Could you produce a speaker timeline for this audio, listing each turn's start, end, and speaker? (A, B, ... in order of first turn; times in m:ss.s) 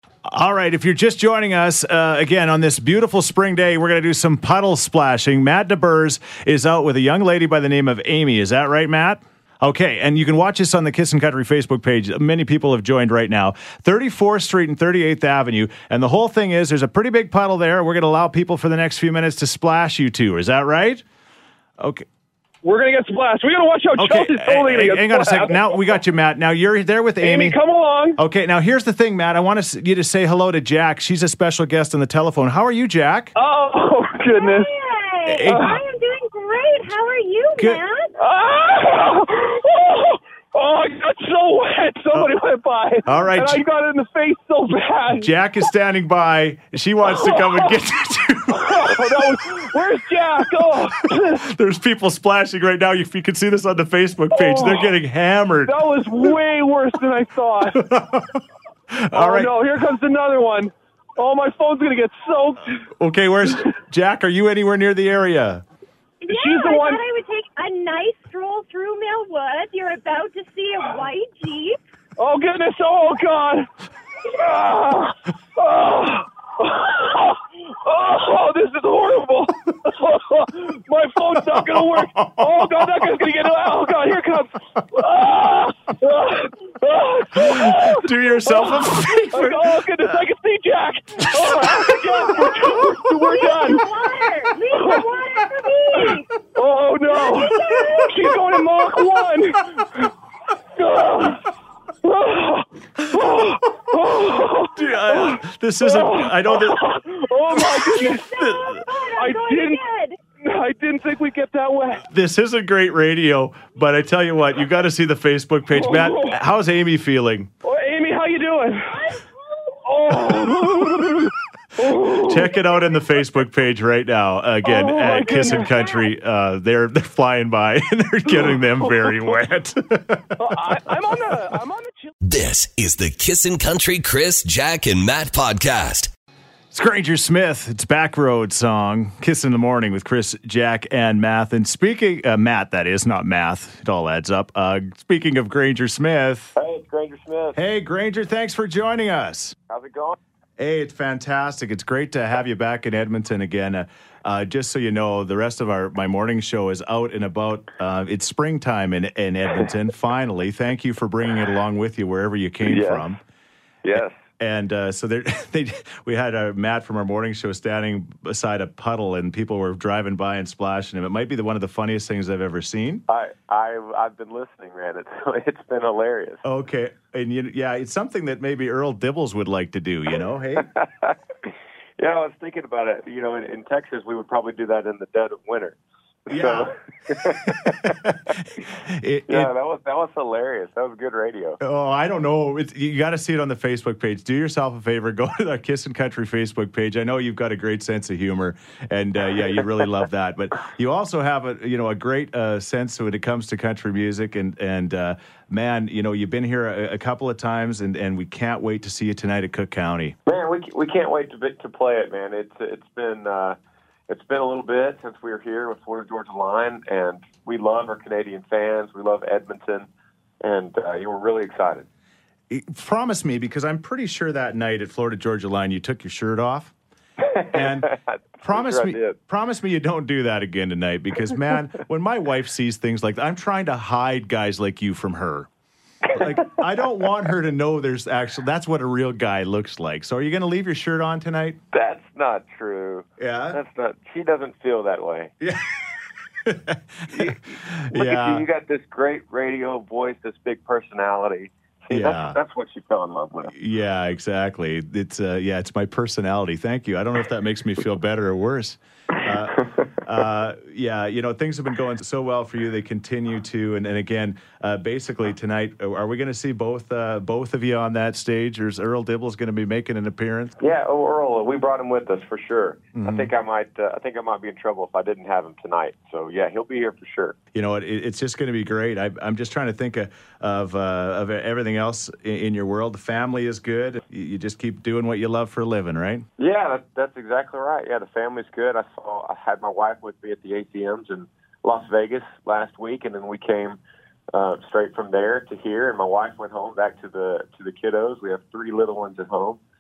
0:00.3-0:21.0 A
0:21.8-0:22.1 A
0:22.6-0:25.8 B
0:24.0-0:27.6 A
0:27.2-0:28.2 B
0:28.2-0:33.3 A
0:33.4-0:34.7 B
0:34.3-0:38.1 C
0:35.3-0:35.7 A
0:35.5-0:35.8 B
0:38.2-0:45.3 B
0:43.0-0:43.6 A
0:45.1-0:49.0 A
0:47.1-0:47.7 B
0:48.5-0:51.4 B
0:51.4-0:55.8 A
0:54.3-0:54.9 B
0:55.7-0:57.9 B
0:57.8-0:59.5 A
0:59.1-1:02.8 B
1:03.0-1:05.6 A
1:06.2-1:11.8 C
1:06.3-1:07.0 B
1:12.2-1:13.7 B
1:14.2-1:33.9 B
1:21.6-1:23.1 A
1:27.4-1:29.8 A
1:31.3-1:31.9 A
1:32.0-1:36.3 C
1:34.8-1:35.1 B
1:36.0-1:40.1 B
1:37.1-1:38.6 C
1:40.8-1:41.4 B
1:42.0-1:48.3 B
1:44.7-1:46.8 A
1:47.5-1:50.2 C
1:49.2-1:49.8 B
1:50.4-1:52.0 B
1:52.1-1:57.5 A
1:55.8-1:56.4 B
1:57.6-1:59.0 B
1:58.9-2:00.6 C
1:59.9-2:02.5 B
2:02.2-2:10.6 A
2:04.6-2:05.7 B
2:05.2-2:06.1 C
2:08.3-2:09.4 B
2:10.4-2:12.1 B
2:12.2-2:16.1 D
2:16.7-2:26.6 A
2:26.6-2:27.6 E
2:27.6-2:29.6 A
2:29.7-2:30.2 E
2:30.6-2:43.2 A
2:42.6-2:43.2 E
2:43.8-2:44.2 E
2:44.4-2:53.0 A
2:53.1-2:56.4 E
2:56.4-3:00.7 A
3:00.6-3:01.2 E
3:02.0-3:08.0 E
3:06.3-3:06.7 A
3:07.4-3:09.5 A
3:09.3-3:11.6 E
3:11.6-3:30.2 A
3:30.3-3:33.6 E
3:34.1-3:39.9 E
3:40.4-3:41.9 E
3:42.5-3:46.7 A
3:47.4-3:49.2 E
3:47.5-3:47.9 A
3:48.4-3:55.5 A
3:56.1-3:56.6 E
3:56.1-4:01.6 A
4:01.7-4:05.3 E
4:03.2-4:03.6 A
4:05.4-4:05.8 A
4:06.4-4:08.4 A
4:07.1-4:07.4 E
4:07.9-4:13.5 E
4:11.9-4:12.4 A
4:13.5-4:30.6 A
4:30.6-4:37.4 E
4:33.0-4:33.3 A
4:37.5-4:46.3 A
4:46.4-4:53.8 E
4:54.3-4:59.6 E